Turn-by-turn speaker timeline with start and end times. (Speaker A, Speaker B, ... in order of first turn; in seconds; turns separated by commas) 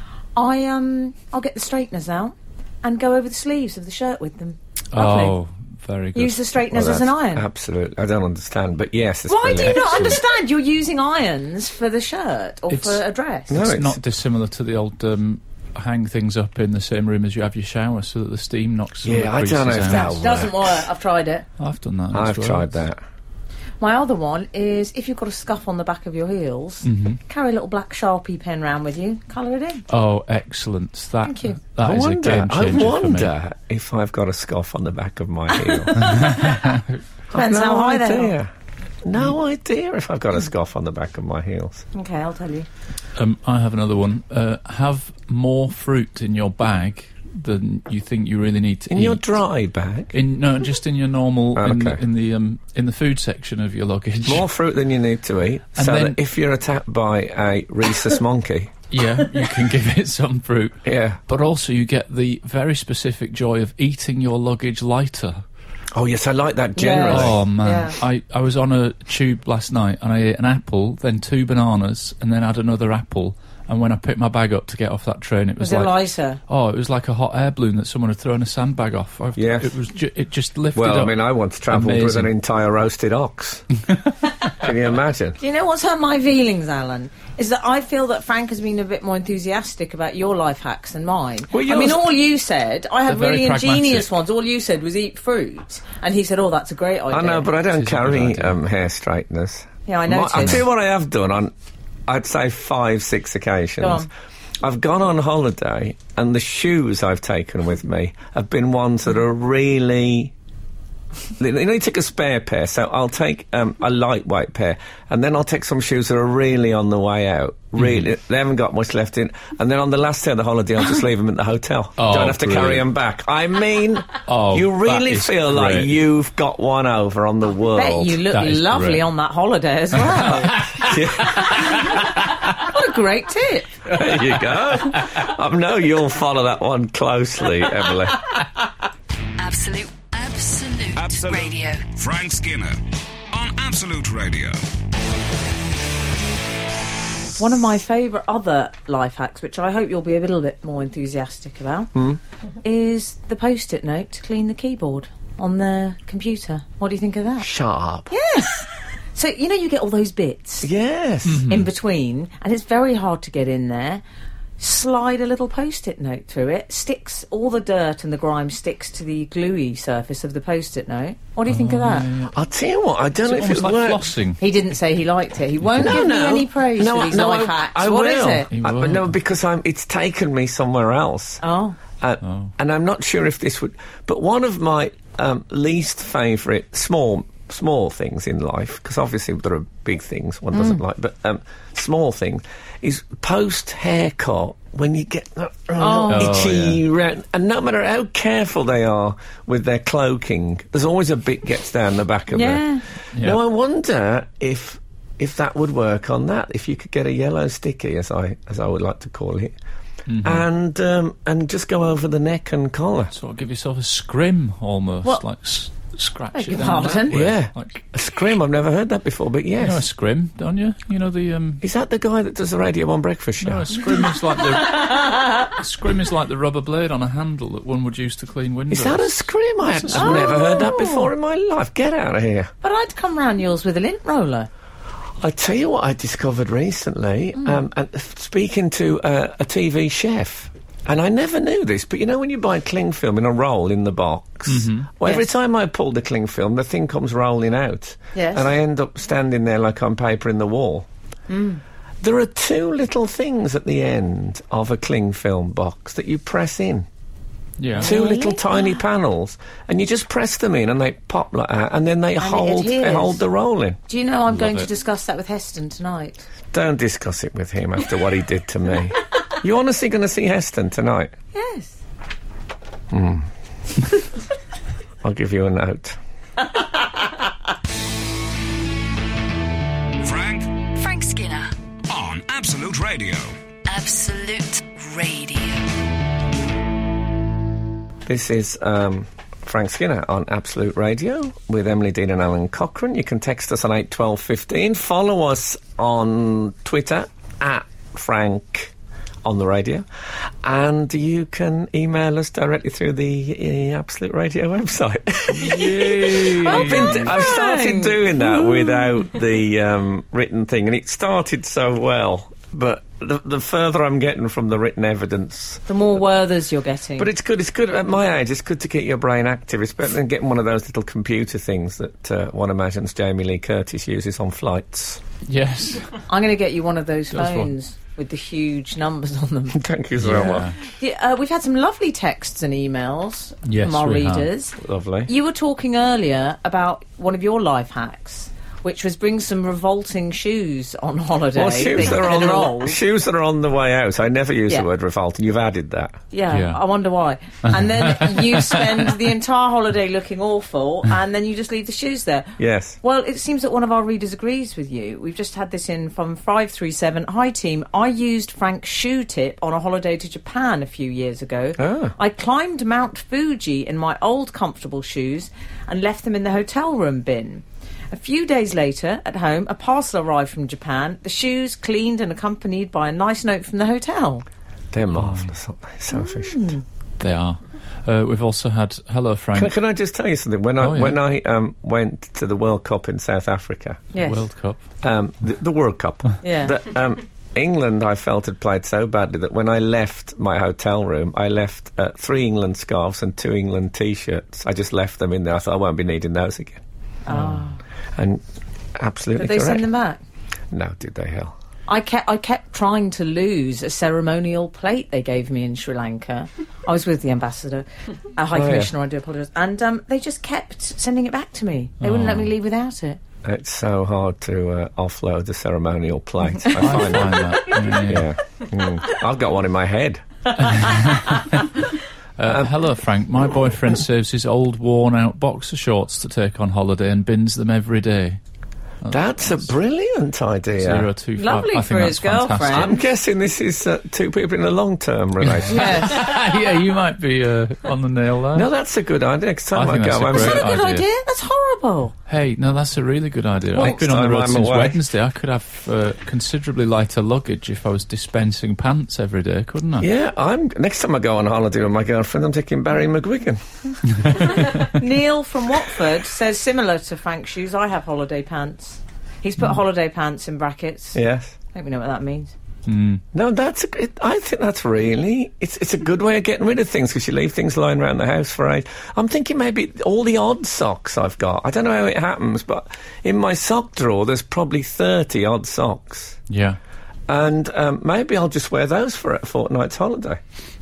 Speaker A: 0.4-5.3, Speaker B: 4.9-6.5, Speaker A: 6.2-7.5, Speaker C: 6.7-10.2, Speaker A: 9.3-13.6, Speaker B: 9.6-10.2, Speaker B: 12.7-20.2, Speaker C: 13.5-14.0, Speaker C: 19.0-20.7, Speaker A: 19.9-21.5, Speaker B: 21.6-22.7, Speaker C: 22.1-23.0, Speaker A: 23.8-29.9, Speaker B: 26.8-27.2, Speaker B: 29.9-33.3, Speaker A: 31.2-31.6, Speaker C: 31.8-36.4, Speaker B: 36.1-36.9, Speaker C: 37.3-38.5, Speaker A: 37.3-38.4, Speaker C: 39.0-41.9, Speaker A: 41.9-42.7, Speaker B: 43.2-49.3, Speaker C: 48.9-50.1, Speaker B: 50.1-54.5, Speaker C: 51.5-52.0, Speaker C: 54.3-58.7, Speaker B: 55.8-56.2, Speaker B: 58.9-65.4, Speaker C: 60.9-61.2, Speaker C: 65.9-67.4, Speaker A: 66.8-68.0, Speaker B: 67.1-76.0, Speaker A: 75.6-76.4, Speaker B: 76.5-82.3, Speaker C: 79.4-79.7, Speaker C: 80.8-83.7, Speaker C: 84.6-85.4, Speaker A: 85.4-97.5, Speaker B: 91.5-92.0, Speaker B: 93.1-94.1, Speaker C: 97.1-101.5, Speaker B: 97.7-98.6, Speaker A: 99.9-100.6, Speaker C: 102.1-104.1, Speaker A: 103.8-104.1, Speaker C: 104.6-110.3, Speaker C: 111.4-128.2, Speaker B: 117.8-118.1, Speaker B: 122.0-122.9, Speaker B: 124.2-126.0, Speaker A: 127.7-130.6, Speaker B: 128.3-129.1, Speaker B: 130.1-132.1, Speaker C: 130.7-131.8, Speaker A: 132.5-133.8, Speaker C: 133.9-138.3, Speaker B: 134.1-134.3, Speaker D: 139.4-141.8, Speaker E: 141.0-142.8, Speaker E: 143.3-144.6, Speaker A: 147.4-151.9, Speaker A: 152.6-157.5, Speaker C: 157.4-158.1, Speaker A: 158.1-160.7, Speaker C: 160.6-161.5, Speaker B: 161.3-161.7, Speaker A: 161.4-164.0, Speaker A: 164.6-172.1, Speaker B: 171.5-172.4, Speaker C: 172.3-174.1, Speaker B: 173.2-174.4, Speaker A: 174.4-178.5, Speaker C: 175.8-181.4, Speaker B: 178.5-179.1, Speaker A: 181.4-181.8, Speaker C: 182.0-202.6, Speaker B: 182.2-182.5, Speaker A: 190.5-190.8, Speaker A: 195.8-196.3, Speaker B: 196.1-196.8, Speaker A: 202.3-202.8, Speaker B: 203.1-203.4, Speaker C: 203.2-209.5, Speaker B: 210.1-210.5, Speaker C: 210.2-213.1, Speaker B: 213.1-217.8, Speaker A: 216.3-217.2, Speaker C: 217.1-219.8, Speaker B: 219.6-221.6, Speaker C: 221.6-224.0, Speaker B: 223.4-230.4, Speaker A: 224.6-225.5, Speaker C: 228.7-232.5, Speaker A: 229.9-231.1, Speaker A: 232.6-234.5, Speaker C: 235.2-250.9, Speaker B: 244.5-244.9, Speaker A: 248.1-248.5, Speaker A: 251.3-251.6, Speaker C: 252.0-256.9, Speaker B: 257.6-257.9, Speaker C: 257.8-263.8, Speaker A: 257.8-258.4, Speaker A: 262.2-263.2, Speaker A: 263.9-266.3, Speaker B: 264.3-264.7, Speaker C: 266.5-271.1, Speaker A: 271.3-271.8, Speaker C: 272.9-273.3, Speaker C: 275.0-276.0, Speaker E: 280.0-280.6, Speaker D: 280.7-281.5, Speaker E: 281.9-283.3, Speaker D: 283.7-285.7, Speaker C: 288.1-298.7, Speaker C: 299.2-299.9, Speaker C: 300.4-315.6, Speaker B: 305.3-307.1, Speaker A: 306.4-309.0, Speaker A: 315.7-317.1, Speaker C: 317.0-325.0, Speaker B: 325.3-326.0, Speaker A: 326.1-329.6, Speaker B: 327.1-327.5, Speaker C: 329.5-330.5, Speaker B: 330.0-330.6, Speaker A: 330.6-334.6, Speaker B: 333.4-334.3, Speaker C: 334.6-335.1, Speaker A: 335.1-342.8, Speaker C: 341.3-346.0, Speaker A: 346.1-374.2, Speaker B: 346.3-346.6, Speaker B: 347.5-348.5, Speaker C: 352.4-352.8, Speaker C: 361.6-361.9, Speaker C: 374.7-376.5, Speaker B: 374.9-375.3, Speaker A: 375.9-376.6, Speaker B: 377.0-379.5, Speaker C: 379.4-383.9, Speaker B: 380.6-381.0, Speaker A: 383.9-384.2, Speaker B: 384.0-384.6, Speaker C: 384.8-396.6, Speaker A: 386.2-386.6, Speaker A: 397.1-397.6, Speaker B: 397.1-397.4, Speaker C: 398.0-398.2, Speaker C: 398.8-399.7, Speaker A: 399.2-400.0, Speaker C: 400.5-401.4, Speaker A: 401.7-413.0, Speaker C: 408.3-408.7, Speaker B: 411.8-412.3, Speaker C: 413.2-420.0, Speaker B: 416.6-418.1, Speaker B: 420.4-421.6, Speaker B: 422.2-428.2, Speaker B: 428.8-429.5, Speaker C: 428.9-430.9, Speaker B: 430.6-432.8, Speaker A: 431.2-432.7, Speaker C: 432.5-436.0, Speaker B: 435.2-438.5, Speaker A: 435.5-436.2, Speaker C: 438.3-440.5, Speaker B: 439.5-440.9, Speaker A: 440.1-441.9, Speaker B: 442.1-449.9, Speaker C: 443.6-444.8, Speaker C: 449.8-453.4, Speaker A: 454.2-461.0, Speaker C: 460.9-461.4, Speaker A: 461.5-462.3, Speaker B: 462.7-463.0, Speaker C: 463.1-476.2, Speaker B: 476.3-476.6, Speaker C: 477.1-480.2